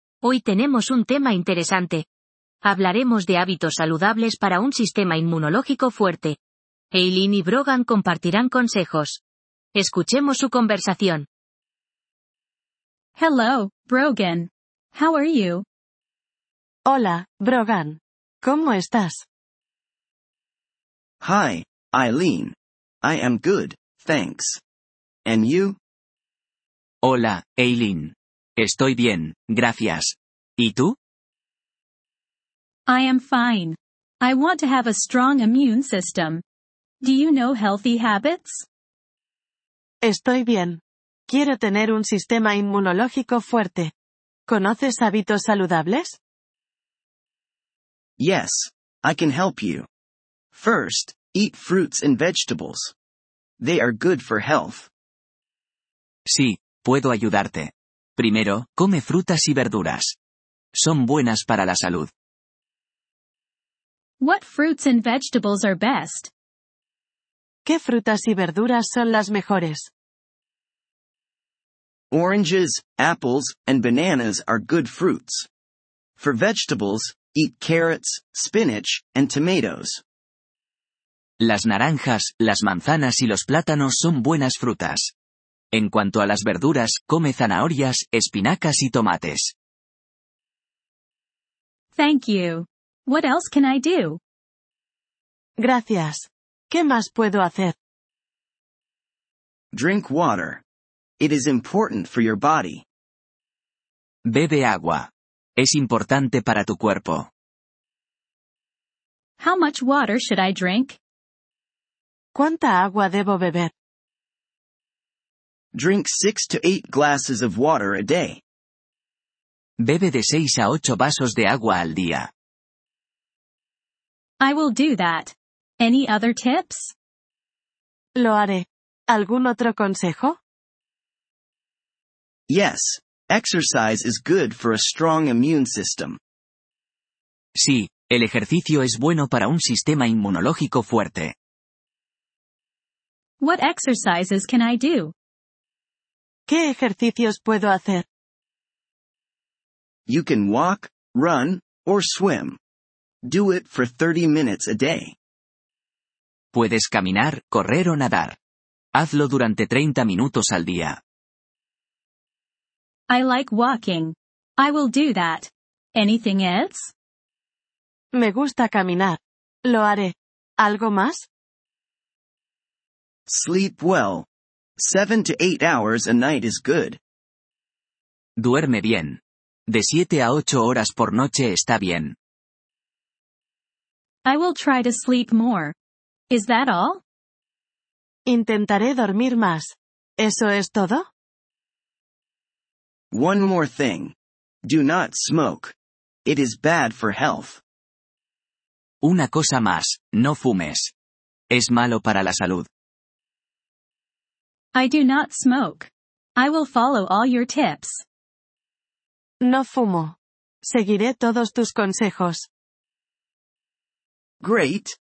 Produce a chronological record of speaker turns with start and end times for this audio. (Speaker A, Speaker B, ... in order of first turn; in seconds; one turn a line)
Speaker A: 0.2-2.0
Speaker A: 2.6-6.4
Speaker A: 6.9-9.2
Speaker A: 9.7-11.2
Speaker B: 13.2-15.6
Speaker C: 16.9-19.2
Speaker D: 21.2-24.6
Speaker D: 25.2-25.8
Speaker E: 27.0-31.0
Speaker B: 32.9-36.4
Speaker B: 37.0-38.6
Speaker C: 40.0-43.9
Speaker C: 44.5-46.2
Speaker D: 48.2-49.9
Speaker D: 50.5-52.9
Speaker D: 53.6-54.9
Speaker E: 56.3-60.1
Speaker E: 60.7-62.1
Speaker B: 64.2-66.3
Speaker C: 67.7-69.9
Speaker D: 72.1-75.5
Speaker D: 76.2-80.0
Speaker E: 81.4-85.1
Speaker E: 85.7-89.5
Speaker B: 91.9-94.2
Speaker C: 95.6-97.7
Speaker D: 99.7-100.6
Speaker D: 101.2-102.8
Speaker E: 104.2-107.3
Speaker B: 109.4-111.0
Speaker C: 112.3-113.7
Speaker D: 115.7-118.4
Speaker E: 119.8-122.3
Speaker B: 124.4-126.9
Speaker C: 128.2-130.4
Speaker D: 132.5-136.2
Speaker E: 137.6-141.3
Speaker B: 143.4-145.1
Speaker C: 146.5-148.0
Speaker D: 150.1-152.6
Speaker D: 153.2-155.1
Speaker E: 156.5-158.3
Speaker E: 158.9-161.0
Speaker B: 163.1-166.9
Speaker C: 168.1-171.2
Speaker D: 173.3-177.0
Speaker E: 178.4-182.1
Speaker B: 184.2-185.7
Speaker B: 186.3-187.0
Speaker C: 188.3-191.0
Speaker D: 193.1-194.1
Speaker D: 194.6-195.7
Speaker D: 196.2-197.6
Speaker E: 199.0-200.9
Speaker E: 201.5-202.7
Speaker B: 204.7-208.0
Speaker C: 209.4-212.4
Speaker D: 214.4-215.0